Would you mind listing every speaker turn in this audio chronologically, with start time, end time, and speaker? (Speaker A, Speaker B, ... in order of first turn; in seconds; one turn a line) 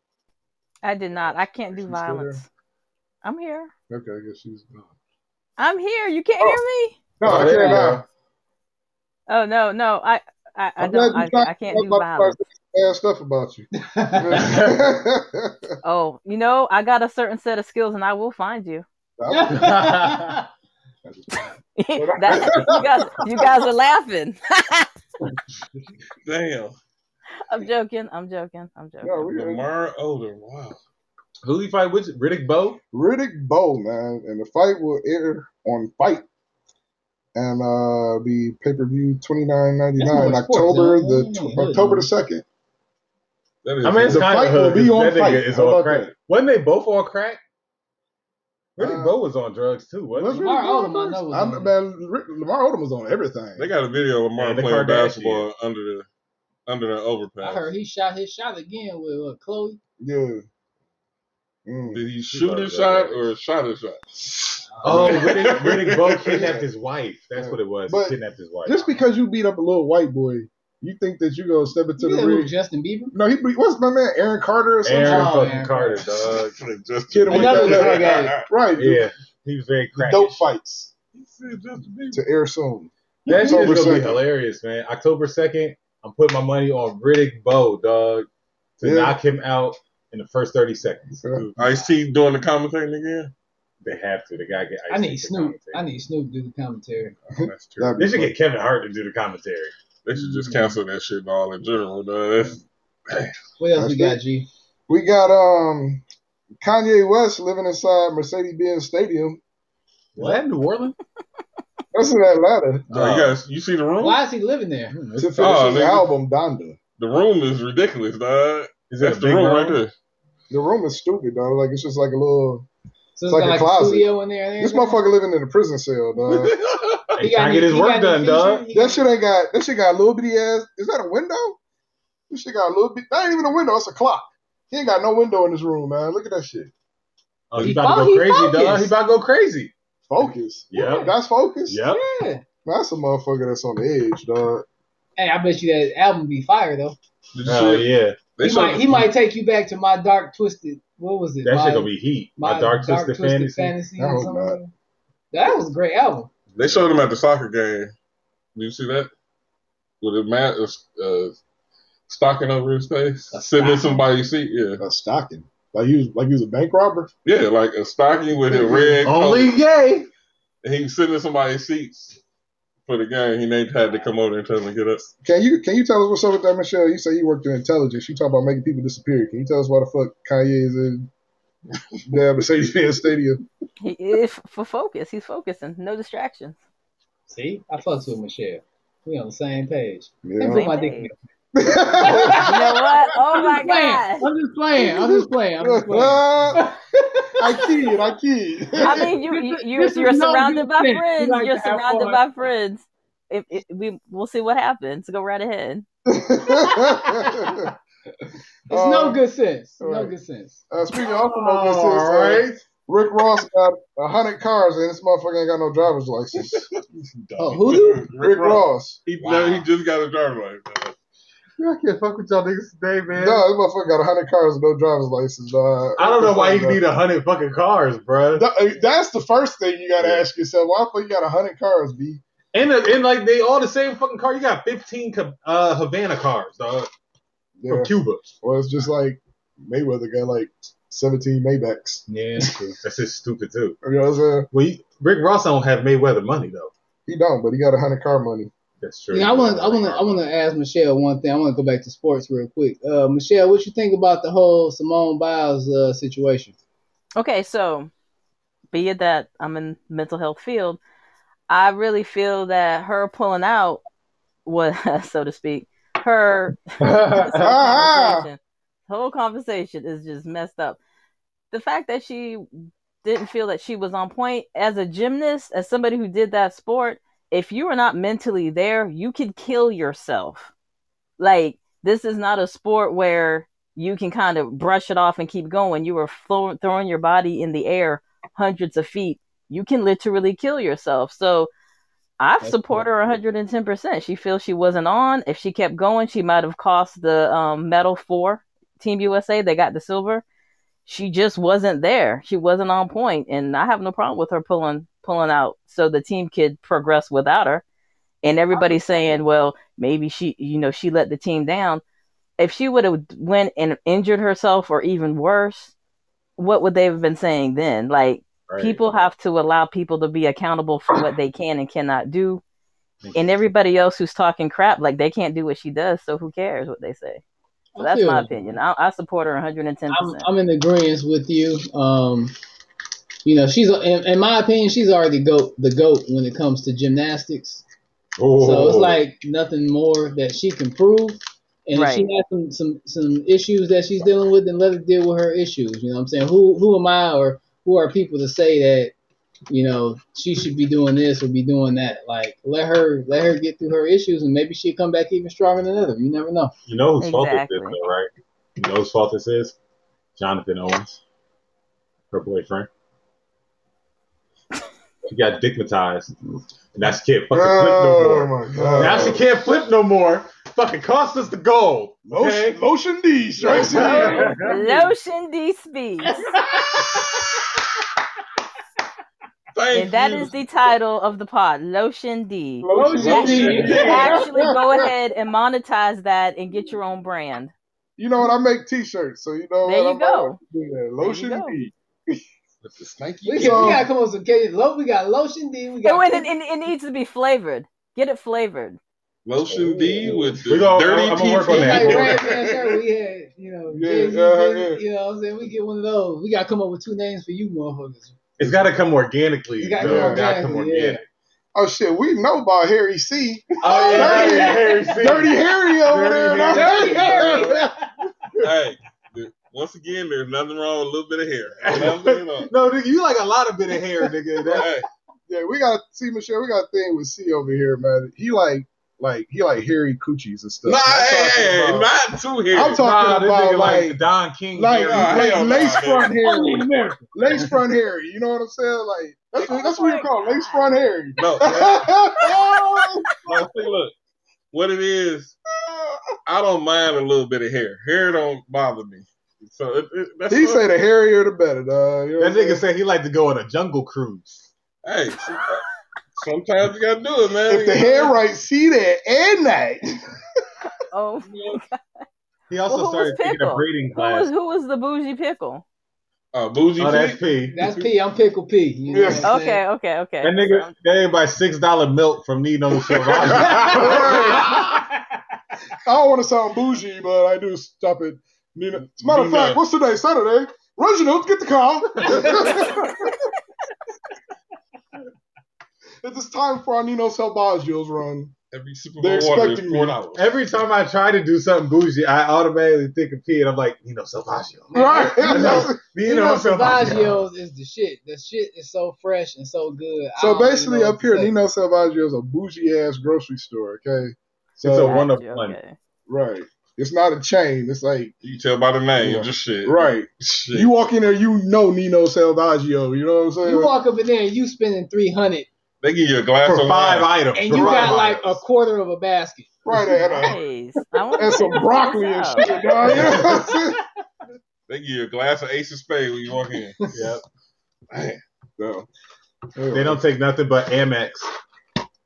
Speaker A: 0.8-2.5
Speaker B: 1.7-2.4
Speaker A: 3.2-3.7
Speaker B: 3.9-4.9
Speaker A: 5.6-7.0
Speaker B: 7.2-8.0
Speaker C: 7.2-8.0
Speaker A: 9.3-12.4
Speaker B: 10.8-15.7
Speaker D: 13.8-14.7
Speaker A: 15.8-18.8
Speaker B: 19.2-19.8
Speaker D: 19.3-20.4
Speaker C: 19.5-20.4
Speaker B: 21.1-23.6
Speaker A: 21.8-24.9
Speaker E: 26.2-26.8
Speaker A: 27.4-29.2
Speaker B: 29.0-29.7
Speaker E: 29.2-30.8
Speaker C: 31.4-32.8
Speaker B: 32.9-36.3
Speaker B: 37.3-42.4
Speaker D: 40.0-42.1
Speaker E: 43.6-44.5
Speaker C: 43.8-47.4
Speaker B: 44.0-46.1
Speaker C: 48.8-50.5
Speaker B: 48.8-49.2
Speaker B: 50.1-53.7
Speaker D: 50.3-51.7
Speaker E: 53.6-56.1
Speaker C: 54.4-55.5
Speaker E: 56.7-57.7
Speaker D: 57.4-59.8
Speaker B: 60.0-60.5
Speaker B: 61.7-62.0
Speaker E: 61.9-64.1
Speaker C: 62.3-63.3
Speaker D: 64.7-65.5
Speaker C: 64.8-68.9
Speaker E: 64.9-66.5
Speaker B: 66.3-66.7
Speaker B: 67.3-72.5
Speaker D: 72.0-73.1
Speaker B: 73.1-75.5
Speaker C: 74.8-76.5
Speaker D: 75.0-76.0
Speaker E: 76.0-78.5
Speaker B: 77.1-79.1
Speaker D: 77.3-78.3
Speaker C: 78.8-80.4
Speaker B: 80.0-80.9
Speaker E: 81.1-82.2
Speaker B: 82.1-84.3
Speaker C: 83.3-88.3
Speaker D: 83.3-83.7
Speaker C: 88.8-91.8
Speaker B: 88.8-89.2
Speaker B: 91.2-91.5
Speaker E: 91.5-93.3
Speaker C: 93.8-95.8
Speaker D: 94.9-97.1
Speaker E: 97.3-98.0
Speaker B: 97.3-98.3
Speaker C: 98.0-99.7
Speaker E: 100.0-103.3
Speaker D: 103.6-104.5
Speaker B: 103.7-104.2
Speaker B: 104.9-106.0
Speaker B: 106.6-109.4
Speaker C: 110.1-111.0
Speaker B: 111.9-112.9
Speaker C: 112.9-113.3
Speaker E: 112.9-114.2
Speaker D: 114.0-115.0
Speaker C: 114.9-115.9
Speaker B: 115.2-116.8
Speaker E: 115.4-116.1
Speaker E: 117.0-119.9
Speaker C: 118.9-119.8
Speaker B: 120.5-122.7
Speaker D: 123.2-125.0
Speaker B: 123.3-126.5
Speaker E: 126.3-127.1
Speaker C: 127.2-128.6
Speaker D: 127.2-129.1
Speaker B: 128.7-131.6
Speaker B: 132.3-136.7
Speaker C: 137.5-139.7
Speaker D: 137.6-138.9
Speaker B: 140.1-141.8
Speaker C: 140.7-141.1
Speaker D: 140.7-141.1
Speaker C: 141.7-142.0
Speaker D: 141.9-142.4
Speaker B: 142.6-144.7
Speaker D: 145.2-147.0
Speaker E: 147.3-149.1
Speaker C: 147.4-148.2
Speaker D: 148.4-154.7
Speaker C: 151.4-153.7
Speaker B: 154.0-154.6
Speaker D: 155.3-156.3
Speaker E: 156.6-157.9
Speaker C: 156.6-157.0
Speaker E: 158.6-159.1
Speaker E: 160.0-161.4
Speaker E: 162.1-164.8
Speaker D: 163.3-164.1
Speaker B: 164.8-167.1
Speaker E: 167.2-169.6
Speaker B: 168.5-169.1
Speaker C: 169.0-170.1
Speaker E: 170.6-172.2
Speaker E: 172.9-175.1
Speaker B: 175.2-181.1
Speaker B: 182.1-183.4
Speaker A: 183.8-186.6
Speaker D: 187.3-191.1
Speaker B: 190.2-190.7
Speaker A: 190.5-191.1
Speaker B: 191.6-192.9
Speaker D: 191.9-192.8
Speaker A: 192.3-194.3
Speaker D: 193.3-197.6
Speaker B: 194.8-196.7
Speaker B: 197.4-199.1
Speaker D: 198.8-202.2
Speaker A: 198.8-205.9
Speaker B: 206.1-207.7
Speaker D: 206.6-207.5
Speaker B: 208.7-209.2
Speaker D: 208.7-210.6
Speaker B: 209.8-210.1
Speaker B: 210.7-216.7
Speaker C: 211.1-212.6
Speaker E: 216.4-220.9
Speaker D: 217.4-218.1
Speaker B: 218.2-219.0
Speaker C: 219.2-219.7
Speaker C: 221.6-223.4
Speaker B: 223.1-226.8
Speaker C: 226.0-228.4
Speaker B: 228.3-232.2
Speaker C: 232.5-236.9
Speaker B: 237.6-242.1
Speaker C: 237.7-238.2
Speaker C: 242.1-243.8
Speaker B: 243.8-244.5
Speaker C: 244.5-246.7
Speaker B: 247.1-248.5
Speaker C: 248.8-250.2
Speaker D: 249.1-256.6
Speaker A: 257.2-257.9
Speaker A: 258.7-260.8
Speaker A: 261.5-263.8
Speaker A: 264.4-270.8
Speaker C: 266.8-267.5
Speaker B: 267.3-268.3
Speaker A: 271.5-272.4
Speaker A: 273.0-280.5
Speaker A: 281.2-291.5
Speaker A: 292.2-300.2
Speaker D: 292.4-292.8
Speaker A: 300.9-307.6
Speaker A: 308.2-311.8
Speaker D: 308.5-309.2
Speaker A: 312.4-315.7
Speaker A: 316.4-322.4
Speaker C: 318.5-318.8
Speaker A: 323.1-327.2
Speaker D: 327.8-328.3
Speaker A: 327.8-330.3
Speaker D: 329.9-332.3
Speaker D: 333.2-337.6
Speaker C: 338.2-339.0
Speaker D: 338.4-348.9
Speaker A: 341.7-342.1
Speaker D: 349.5-356.5
Speaker C: 356.7-359.6
Speaker A: 357.0-357.8
Speaker C: 360.2-361.0
Speaker C: 362.1-362.7
Speaker C: 365.1-366.2
Speaker C: 366.7-372.6
Speaker B: 367.3-369.2
Speaker E: 368.7-369.2
Speaker B: 372.1-374.3
Speaker C: 373.4-374.8
Speaker A: 373.6-376.3
Speaker D: 373.6-374.8
Speaker D: 376.2-377.1
Speaker E: 379.5-380.5
Speaker A: 379.7-387.5
Speaker B: 382.6-384.9
Speaker D: 382.7-384.0
Speaker C: 382.9-383.9
Speaker E: 383.0-384.2
Speaker B: 388.0-392.2
Speaker A: 389.6-390.4
Speaker A: 391.0-391.5
Speaker E: 392.6-393.8
Speaker B: 393.0-393.9
Speaker D: 393.2-396.3
Speaker A: 395.8-398.8
Speaker E: 399.3-402.8
Speaker B: 399.5-400.3
Speaker C: 400.5-402.3
Speaker D: 401.4-408.2
Speaker B: 403.7-404.8
Speaker C: 408.4-411.0
Speaker D: 409.6-411.0
Speaker B: 409.8-410.2
Speaker B: 411.6-417.6
Speaker D: 413.6-415.1
Speaker C: 413.6-417.7
Speaker D: 416.4-417.8
Speaker E: 417.0-417.6
Speaker E: 418.4-422.5
Speaker C: 421.6-424.7
Speaker E: 424.5-424.8
Speaker B: 425.3-431.9
Speaker E: 430.6-432.8
Speaker B: 432.5-434.0
Speaker C: 432.8-435.4
Speaker B: 434.6-443.1
Speaker E: 434.9-436.2
Speaker D: 436.2-437.0
Speaker A: 439.4-440.7
Speaker E: 441.2-441.9
Speaker E: 443.2-443.9
Speaker E: 444.5-445.4
Speaker B: 445.6-446.0
Speaker E: 446.3-450.6
Speaker B: 450.3-452.6
Speaker C: 452.2-454.5
Speaker E: 454.8-455.6
Speaker E: 456.2-458.0
Speaker B: 457.5-460.1
Speaker A: 460.7-461.8
Speaker E: 461.3-461.6
Speaker C: 462.5-464.3
Speaker A: 462.7-465.6
Speaker E: 466.3-467.9
Speaker C: 466.8-467.6
Speaker D: 467.5-469.6
Speaker B: 468.9-469.3
Speaker A: 469.2-470.7
Speaker C: 470.2-474.6
Speaker B: 473.1-474.6
Speaker D: 473.4-474.8
Speaker B: 475.8-483.1
Speaker E: 479.0-479.6
Speaker B: 486.0-488.3
Speaker E: 488.5-490.3
Speaker B: 489.0-490.0
Speaker C: 490.1-497.2
Speaker D: 494.7-501.3
Speaker B: 494.7-497.0
Speaker B: 500.2-505.0
Speaker C: 504.6-505.6
Speaker A: 504.8-505.8
Speaker B: 506.1-508.1
Speaker E: 508.2-510.7
Speaker B: 509.0-513.7
Speaker D: 513.4-515.5
Speaker E: 515.8-518.0
Speaker C: 516.5-518.4
Speaker D: 517.3-520.3
Speaker B: 519.6-520.4
Speaker A: 520.2-522.6
Speaker B: 521.1-523.8
Speaker D: 522.5-523.5
Speaker C: 522.9-523.3
Speaker E: 524.7-526.9
Speaker C: 526.9-527.2
Speaker E: 527.9-528.2
Speaker B: 528.6-528.9
Speaker B: 529.5-530.0
Speaker C: 529.7-531.3